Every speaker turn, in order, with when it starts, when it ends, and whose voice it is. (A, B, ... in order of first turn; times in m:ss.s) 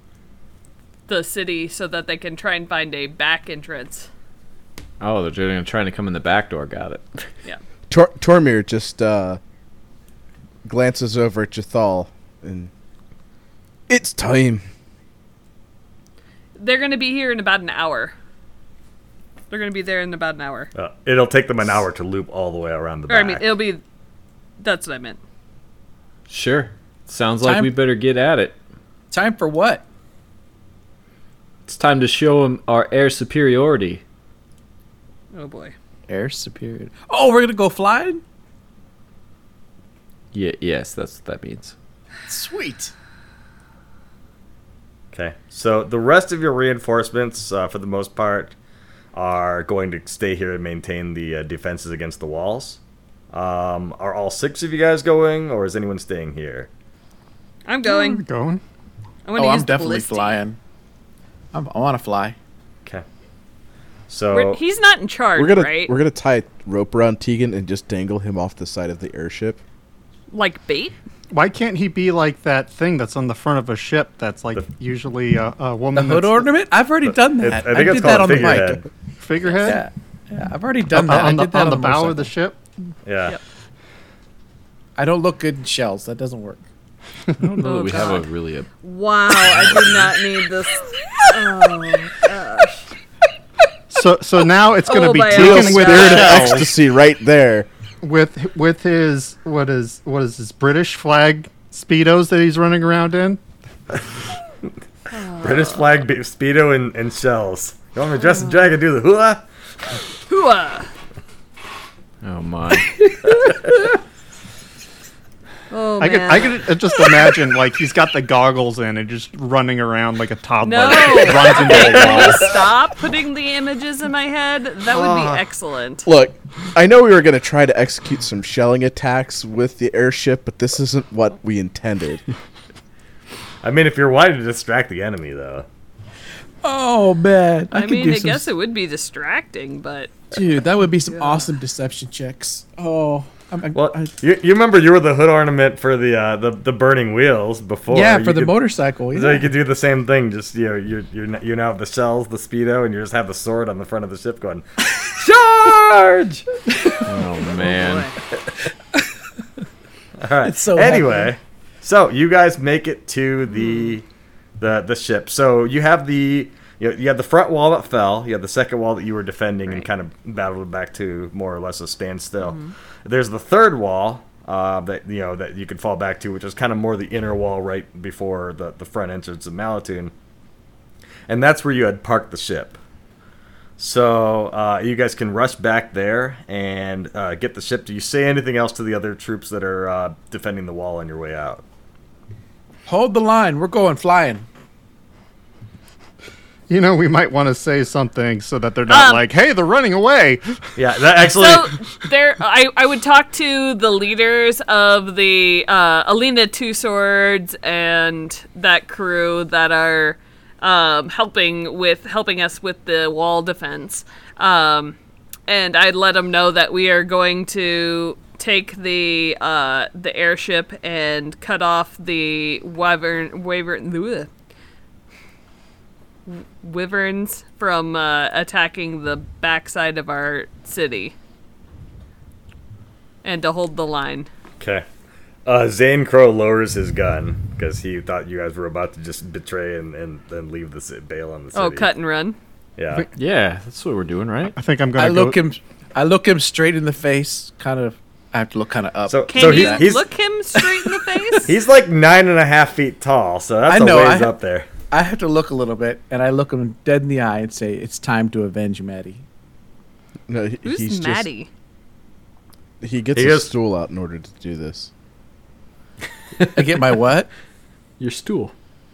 0:01.1-0:04.1 A
0:05.0-0:07.3 B
0:07.9-0:09.4 C
0:10.6-0:12.7 C
0:13.9-0:14.6 C
0:16.6-0:18.1 A
0:19.5-0:20.7 A
0:20.7-0:23.5 D
0:23.1-0:23.8 A
0:24.6-0:25.2 A
0:26.3-0:28.6 B
0:27.4-0:27.8 E
0:29.1-0:29.8 E
0:31.7-0:34.0 B
0:35.3-0:35.7 A
0:36.1-0:38.2 E
0:40.3-0:41.7 B
0:42.2-0:42.9 E
0:45.1-0:48.5 D
0:49.1-0:52.8 D
0:53.3-0:56.7 D
0:57.6-0:58.2 A
0:57.8-0:58.6 F
0:59.2-1:00.4 A
0:59.4-1:00.6 E
1:01.5-1:02.4 E
1:04.1-1:04.6 D
1:04.3-1:05.9 A
1:05.4-1:09.6 C
1:10.3-1:11.0 A
1:11.3-1:16.5 F
1:15.9-1:18.8 E
1:17.0-1:18.8 D
1:19.2-1:19.8 F
1:19.6-1:22.3 E
1:20.9-1:22.6 F
1:23.0-1:23.4 D
1:25.0-1:26.6 E
1:27.4-1:28.7 B
1:27.6-1:28.3 A
1:28.8-1:32.9 A
1:29.3-1:30.2 B
1:33.9-1:36.7 F
1:34.8-1:36.6 A
1:35.3-1:37.7 C
1:38.0-1:43.4 F
1:45.1-1:45.9 A
1:45.4-1:49.4 D
1:48.3-1:48.6 A
1:50.3-1:50.9 A
1:52.2-1:52.9 B
1:55.7-1:57.3 A
1:56.0-2:02.6 F
2:00.6-2:06.0 A
2:04.9-2:05.4 D
2:06.0-2:12.2 C
2:13.6-2:15.6 D
2:16.6-2:18.4 E
2:17.7-2:20.3 A
2:20.3-2:24.1 E
2:21.1-2:21.5 A
2:23.7-2:28.6 D
2:27.9-2:29.5 E
2:29.1-2:36.5 D
2:36.8-2:37.1 E
2:37.0-2:38.2 B
2:37.6-2:38.2 A
2:40.2-2:44.0 D
2:40.4-2:41.3 E
2:43.5-2:44.0 A
2:44.6-3:00.1 D
2:52.4-2:52.7 A
3:01.3-3:02.8 D
3:03.8-3:11.6 D
3:12.8-3:14.4 E
3:16.7-3:20.4 F
3:18.9-3:19.2 A
3:20.8-3:21.7 D
3:21.3-3:35.0 A
3:35.5-3:44.3 A
3:46.3-3:51.1 A
3:53.2-3:54.3 A
3:54.6-3:54.8 D
3:55.4-4:01.9 D
4:01.5-4:02.4 A
4:02.8-4:03.0 D
4:03.1-4:04.6 B
4:04.6-4:05.4 F
4:05.0-4:09.8 E
4:09.0-4:10.0 D
4:09.3-4:11.5 A
4:10.6-4:11.4 E
4:11.4-4:14.7 D
4:13.7-4:14.3 E
4:14.9-4:19.2 E
4:20.3-4:21.3 C
4:20.6-4:21.5 A
4:22.8-4:24.9 C
4:23.1-4:23.5 D
4:26.5-4:27.3 E
4:28.0-4:28.5 B